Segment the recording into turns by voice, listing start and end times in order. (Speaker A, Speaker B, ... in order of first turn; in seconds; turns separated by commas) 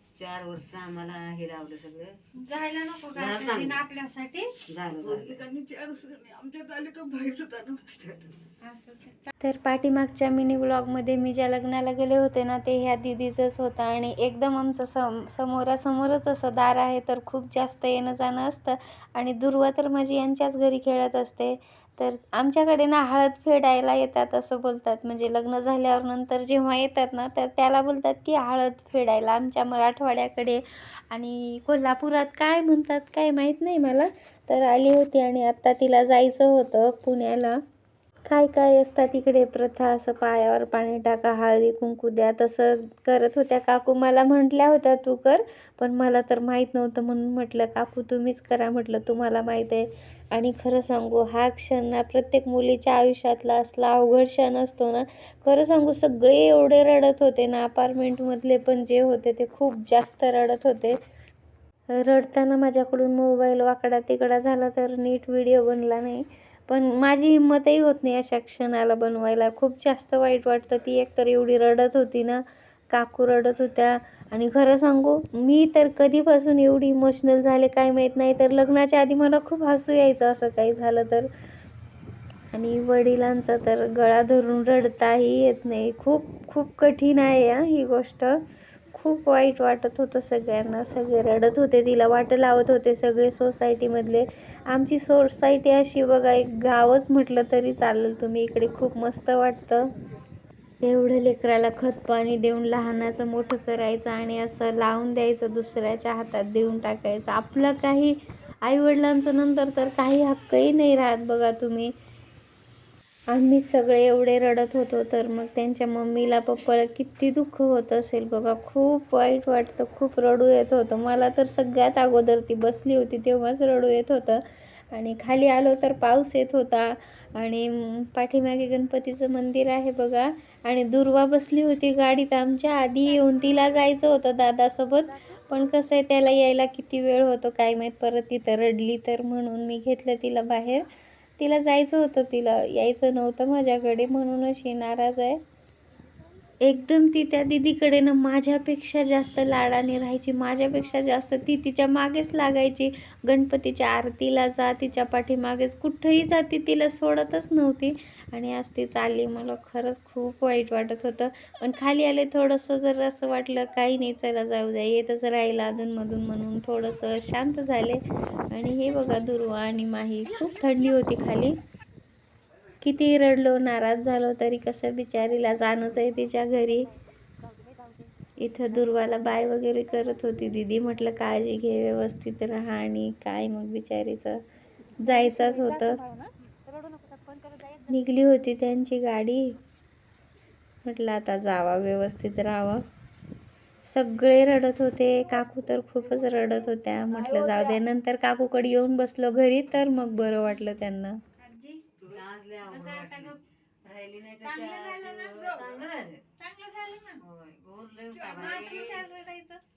Speaker A: 0.1-2.2, Speaker B: 2.3-4.5, Speaker A: 3.1-3.9, Speaker A: 4.7-5.4, Speaker C: 5.0-8.3, Speaker B: 8.6-9.3, Speaker D: 9.4-37.6, Speaker D: 38.3-61.0, Speaker D: 61.9-81.3, Speaker D: 82.5-88.4, Speaker D: 88.9-99.9, Speaker D: 100.8-111.9, Speaker D: 113.3-124.4, Speaker D: 124.9-140.8, Speaker D: 141.4-145.4, Speaker D: 146.6-171.6, Speaker D: 172.8-176.9, Speaker B: 177.5-178.1, Speaker D: 178.4-184.4, Speaker D: 185.0-186.0, Speaker B: 185.0-187.9, Speaker D: 187.9-189.5, Speaker D: 190.8-192.8, Speaker D: 193.9-201.2, Speaker C: 197.1-197.8, Speaker B: 201.4-201.8, Speaker A: 202.0-206.2, Speaker B: 202.6-203.4, Speaker B: 204.4-205.3, Speaker C: 205.3-205.9, Speaker B: 206.4-207.2, Speaker A: 207.2-209.1, Speaker C: 208.1-209.0, Speaker B: 208.3-209.6